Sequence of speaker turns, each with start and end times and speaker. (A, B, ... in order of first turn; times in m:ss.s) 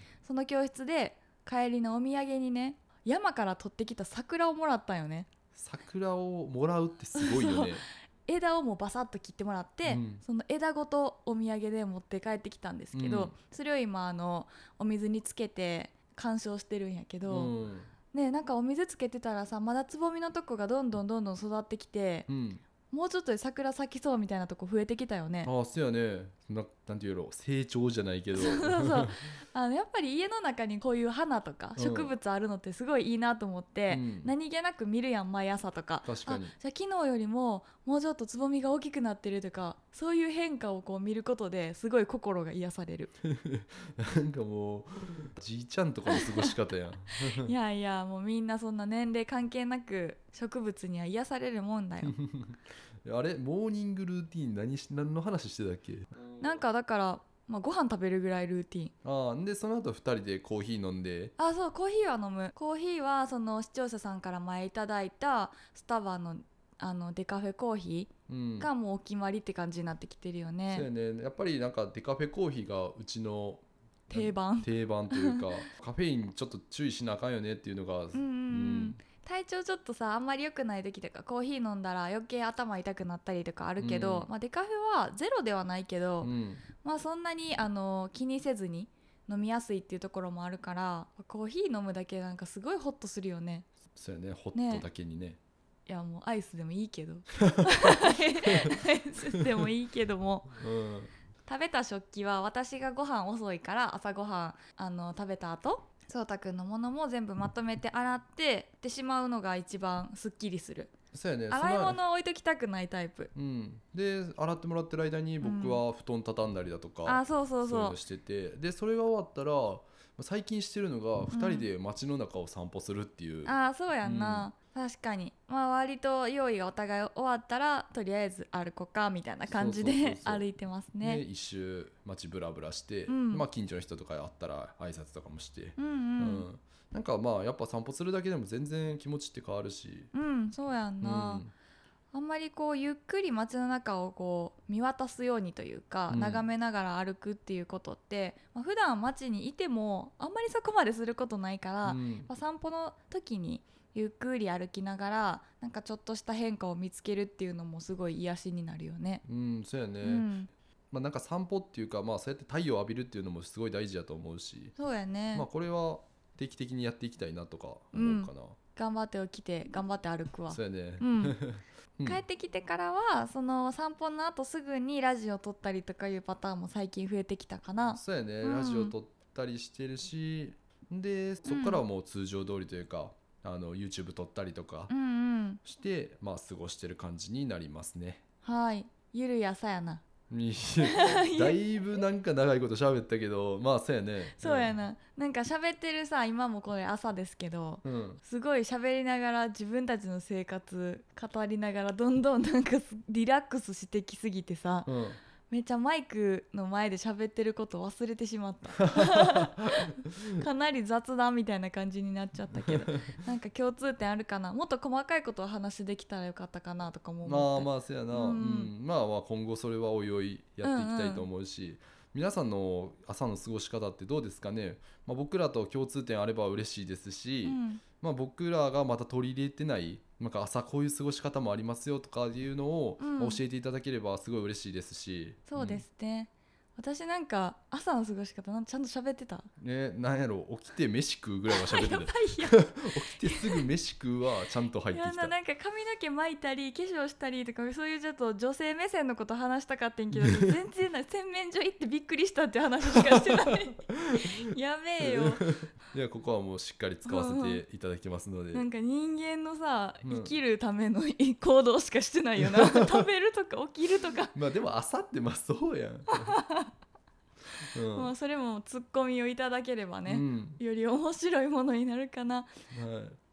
0:00.2-0:05.3 A
0:05.5-0:07.8 B
0:07.2-0:17.5 A
0:09.8-0:10.2 B
0:12.9-0:13.3 B
0:17.3-0:17.9 B
0:18.1-0:22.3 A
0:22.3-0:22.6 B
0:22.9-0:25.5 A
0:25.4-0:29.3 B
0:28.3-0:43.1 A
0:31.8-0:32.1 B
0:33.9-0:34.3 B
0:36.0-0:36.5 B
0:43.2-0:47.5 B
0:46.1-0:46.5 A
0:47.2-0:52.2 A
0:52.0-0:56.6 B
0:56.4-0:58.9 A
0:59.0-1:01.3 B
1:01.4-1:10.9 A
1:08.3-1:08.7 B
1:10.7-1:19.0 B
1:14.1-1:15.6 A
1:18.1-1:26.3 A
1:23.8-1:24.3 B
1:26.2-1:26.6 B
1:26.8-1:33.6 A
1:34.0-1:35.4 B
1:34.5-1:34.8 A
1:35.9-1:40.6 A
1:37.5-1:38.7 B
1:40.6-1:41.1 B
1:41.5-1:50.9 A
1:51.1-1:52.0 B
1:51.5-1:53.3 A
1:53.3-2:04.5 B
1:55.4-1:55.8 A
1:57.0-1:58.0 A
2:01.3-2:01.7 A
2:03.4-2:11.2 A
2:09.5-2:10.5 B
2:11.0-2:20.1 B
2:13.1-2:13.4 A
2:15.8-2:16.4 A
2:20.1-2:21.4 A
2:21.0-2:21.5 B
2:22.1-2:39.2 A
2:26.1-2:26.5 B
2:31.8-2:32.3 B
2:39.2-2:40.3 B
2:40.0-2:40.5 A
2:40.9-2:44.7 B
2:44.8-2:45.5 A
2:45.3-2:48.6 B
2:47.9-2:51.4 A
2:50.5-2:52.2 B
2:52.0-2:58.9 A
2:57.9-3:04.9 B
3:01.4-3:01.8 A
3:04.9-3:05.6 A
3:05.6-3:08.2 B
3:08.4-3:10.0 A
3:10.3-3:14.8 B
3:10.8-3:11.6 A
3:14.4-3:24.9 A
3:17.8-3:18.2 B
3:24.9-3:25.2 B
3:25.5-3:38.7 A
3:28.8-3:29.6 B
3:32.7-3:33.1 B
3:37.2-3:55.8 B
3:40.6-3:41.3 A
3:47.4-3:47.8 A
3:53.0-3:53.4 A
3:55.5-3:59.5 A
3:59.6-4:05.3 B
4:01.5-4:03.7 A
4:04.9-4:15.6 A
4:10.2-4:10.5 B
4:13.0-4:14.1 B
4:15.0-4:18.6 B
4:17.0-4:17.6 A
4:18.5-4:24.3 A
4:20.0-4:20.3 B
4:22.4-4:23.0 B
4:24.3-4:26.3 B
4:26.2-4:26.7 A
4:27.7-4:28.1 B
4:27.9-4:32.5 A
4:30.1-4:30.6 B
4:32.7-4:33.2 B